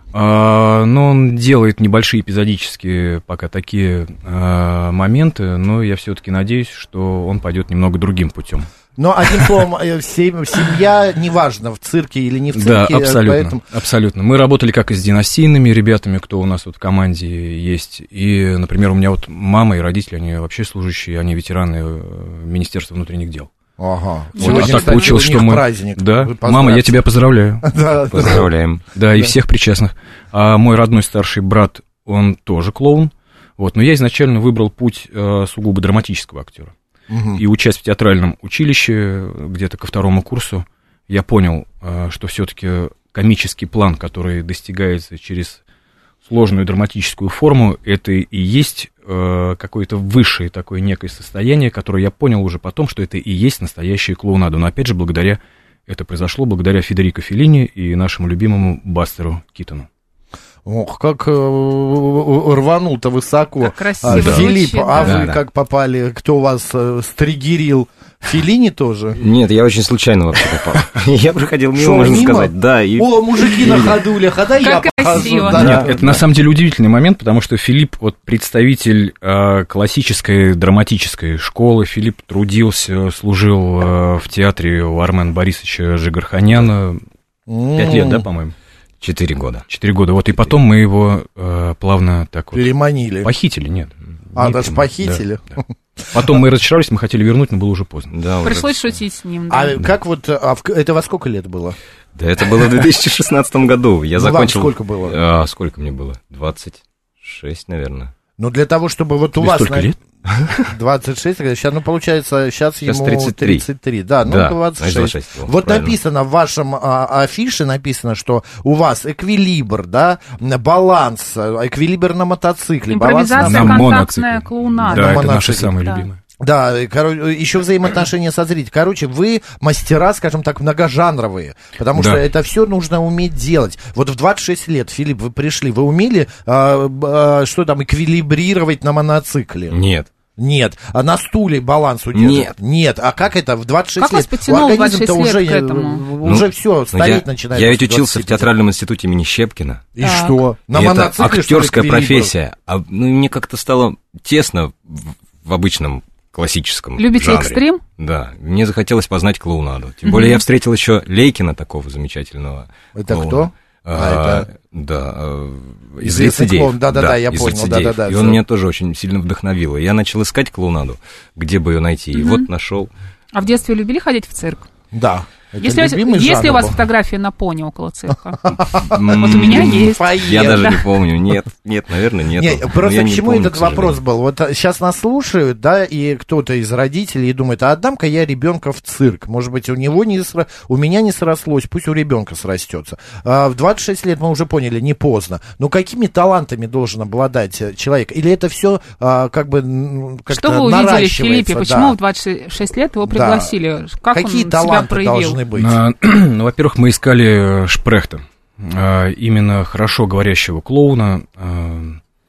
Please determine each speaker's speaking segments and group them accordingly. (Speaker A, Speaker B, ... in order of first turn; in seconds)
Speaker A: 0.1-8.7, 12.5-23.5, 24.4-27.7, 28.9-36.7, 37.4-45.6, 46.2-59.9, 75.5-87.0, 87.7-88.5, 89.7-95.2, 96.1-98.1, 109.4-110.0, 123.4-126.2, 131.9-132.2, 205.6-212.0
Speaker B: 9.0-13.7, 23.8-27.0, 27.6-28.5, 37.1-37.4, 60.6-69.2, 71.8-76.0, 87.5-88.3, 92.5-93.3, 94.4-96.2, 99.5-101.8, 104.2-105.2, 108.4-109.9, 110.6-124.0, 124.8-125.8, 126.4-139.8, 140.4-148.5, 150.0-152.3, 162.9-164.5, 166.0-168.4, 174.9-176.8, 178.5-180.8, 182.3-202.0, 203.1-203.5, 204.1-205.8
Speaker C: 24.4-25.2, 63.6-65.3, 74.6-75.6, 98.4-99.8, 122.9-126.1, 144.0-146.1, 150.0-150.4, 157.0-157.8, 160.1-160.4, 172.1-172.5, 173.3-174.7, 175.6-180.8, 200.3-205.4
Speaker D: 28.1-28.8, 64.1-64.5, 65.0-65.4, 69.2-74.0, 75.5-76.2, 89.0-89.7, 98.1-98.7, 102.2-108.1, 112.8-113.7, 114.2-116.0, 139.7-140.1, 142.1-142.5, 146.2-149.9, 150.7-172.9, 178.8-184.0